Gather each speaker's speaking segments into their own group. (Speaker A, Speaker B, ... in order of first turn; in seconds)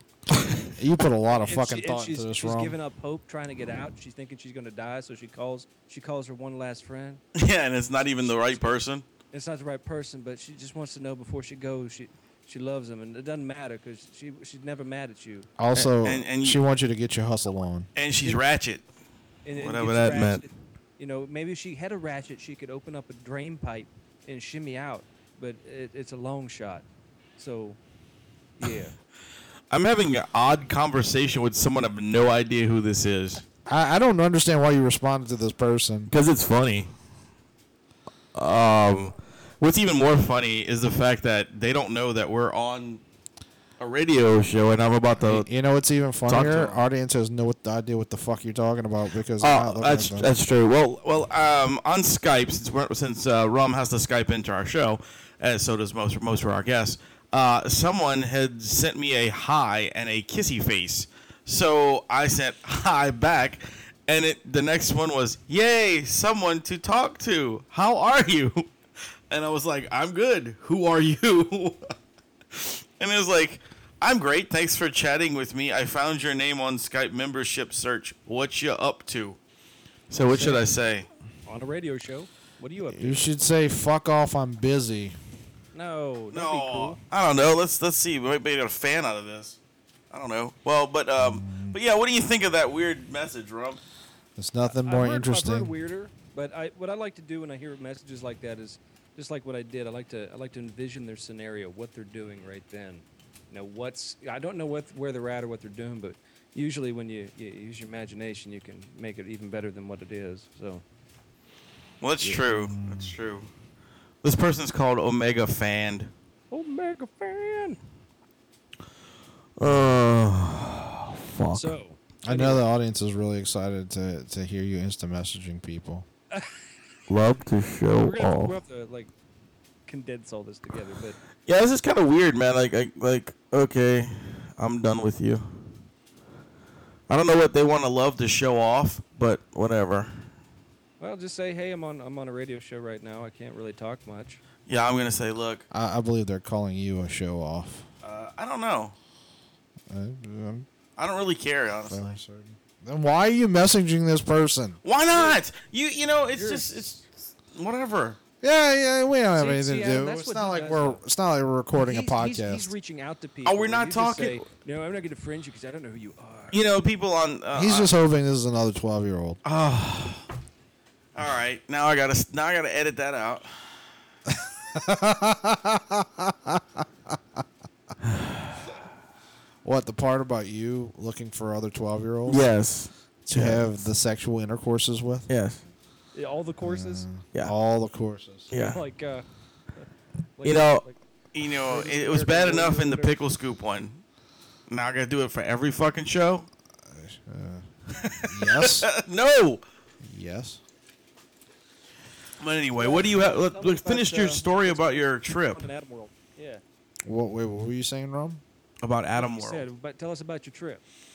Speaker A: 0.3-2.8, 15.6-17.9, 33.7-36.1, 45.1-50.3, 82.8-85.2, 91.2-91.8, 94.3-95.7, 112.2-113.2, 119.6-119.9, 122.2-126.1, 145.7-147.9, 149.9-150.7, 151.8-154.8, 158.4-162.7, 167.5-169.4, 174.3-177.4, 179.6-182.5, 183.2-185.3, 186.6-188.5, 196.8-197.7, 198.2-198.9, 200.0-200.6, 207.0-208.4
Speaker B: 1.3-7.2, 9.3-15.5, 19.4-26.9, 27.4-27.8, 28.6-28.9, 80.3-80.6, 81.5-83.3, 85.7-87.0, 94.7-110.8, 116.5-117.8, 121.5-122.6, 126.3-126.6, 128.0-129.1, 129.9-131.2, 141.0-144.4, 156.3-157.1, 159.3-161.0, 161.7-166.6, 186.1-187.1, 188.6-189.2, 190.4-191.0, 191.7-193.1, 202.8-206.6, 209.2-210.8
Speaker C: 7.3-9.0, 15.7-16.6, 17.9-18.8, 19.5-20.4, 29.7-33.4, 36.1-36.9, 38.3-43.0, 43.8-45.5, 46.3-46.8, 49.4-68.7, 69.3-71.9, 72.5-79.4, 80.1-81.1, 86.3-89.6, 90.1-93.8, 112.0-113.5, 114.2-116.1, 119.6-121.7, 127.1-128.6, 131.4-135.6, 137.1-140.3, 144.7-145.6, 148.0-148.9, 151.0-152.2, 154.8-157.0, 157.5-158.2, 163.4-164.4, 166.5-167.9, 169.4-170.2, 171.1-173.9, 178.0-178.7, 182.3-183.7, 185.3-185.6, 188.5-188.8, 190.4-194.0, 194.7-196.5, 198.0-199.6, 202.4-205.7, 208.8-209.7